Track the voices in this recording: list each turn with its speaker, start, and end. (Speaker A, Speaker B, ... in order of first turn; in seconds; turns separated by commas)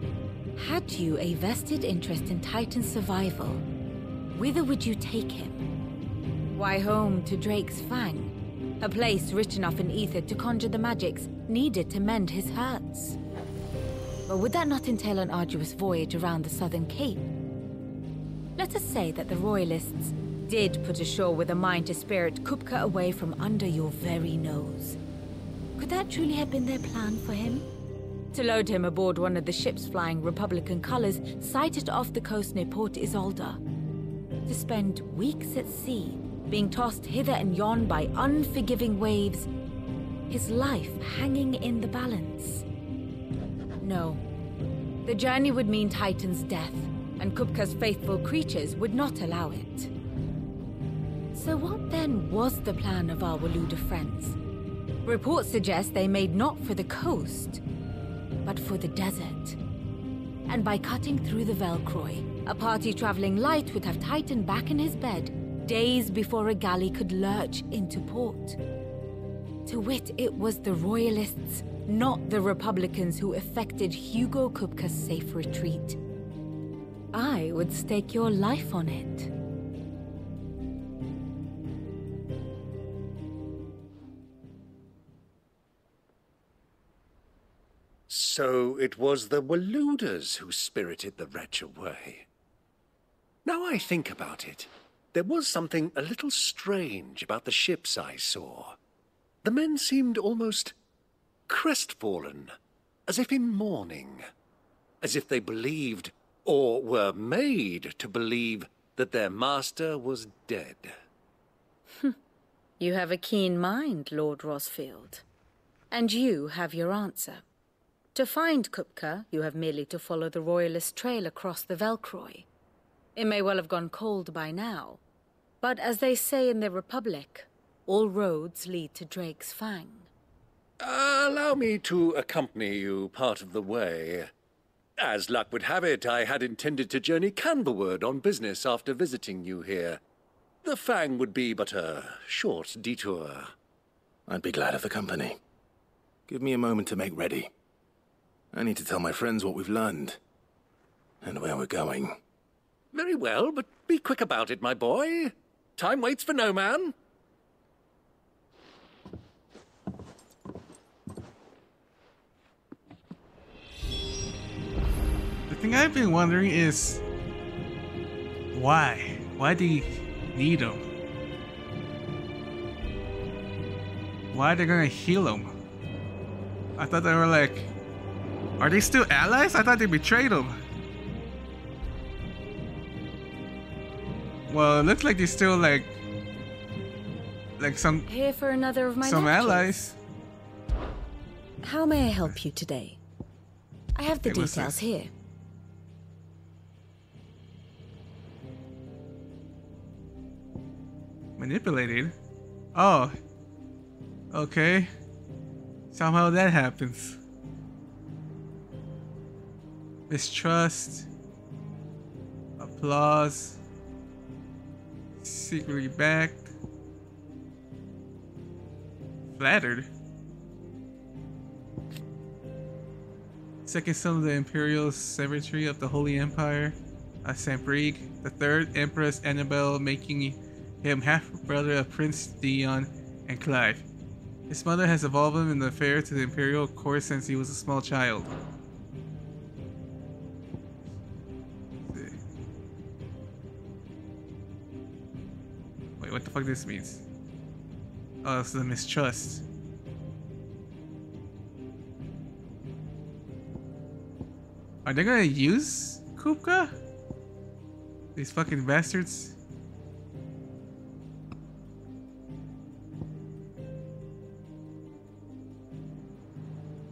Speaker A: 0.6-3.6, Speaker A: 4.3-5.7, Speaker A: 6.5-13.2, Speaker A: 14.3-17.3, Speaker A: 18.6-25.0, Speaker A: 25.8-27.7, Speaker A: 28.3-33.6, Speaker A: 34.5-39.5, Speaker A: 40.3-42.6, Speaker A: 43.8-44.2, Speaker A: 45.0-49.9, Speaker A: 51.3-54.4, Speaker A: 55.0-57.6, Speaker A: 58.5-59.6, Speaker A: 60.5-68.6, Speaker A: 69.7-76.0, Speaker A: 77.1-79.3, Speaker B: 88.1-92.3, Speaker B: 93.5-98.8, Speaker B: 99.4-100.7, Speaker B: 101.5-102.5, Speaker B: 103.1-104.2, Speaker B: 105.0-110.9, Speaker A: 112.8-115.2, Speaker A: 115.9-117.4, Speaker A: 118.2-122.5, Speaker A: 123.2-125.0, Speaker A: 125.6-130.1, Speaker B: 130.8-134.3, Speaker B: 135.0-140.0, Speaker B: 140.6-143.5, Speaker C: 144.3-145.4, Speaker C: 146.3-147.5, Speaker C: 148.5-150.2, Speaker C: 151.2-152.2, Speaker B: 152.9-156.9, Speaker D: 165.5-167.0, Speaker D: 168.5-170.8, Speaker D: 174.3-175.5, Speaker D: 176.8-177.7, Speaker D: 178.6-180.6, Speaker D: 184.5-185.9, Speaker D: 187.6-188.1, Speaker A: 188.1-189.7, Speaker D: 189.0-190.0, Speaker A: 191.6-193.0, Speaker A: 194.0-195.1, Speaker D: 194.2-194.8, Speaker D: 201.4-202.2, Speaker D: 202.8-203.2, Speaker D: 204.3-204.9, Speaker D: 205.9-207.2, Speaker D: 210.1-211.1, Speaker D: 212.6-213.6, Speaker D: 215.2-216.5, Speaker D: 219.3-219.9, Speaker D: 223.7-233.9, Speaker D: 234.5-238.3, Speaker D: 241.9-242.2, Speaker D: 246.0-247.0, Speaker D: 248.2-249.4, Speaker D: 254.8-256.7, Speaker D: 258.2-259.4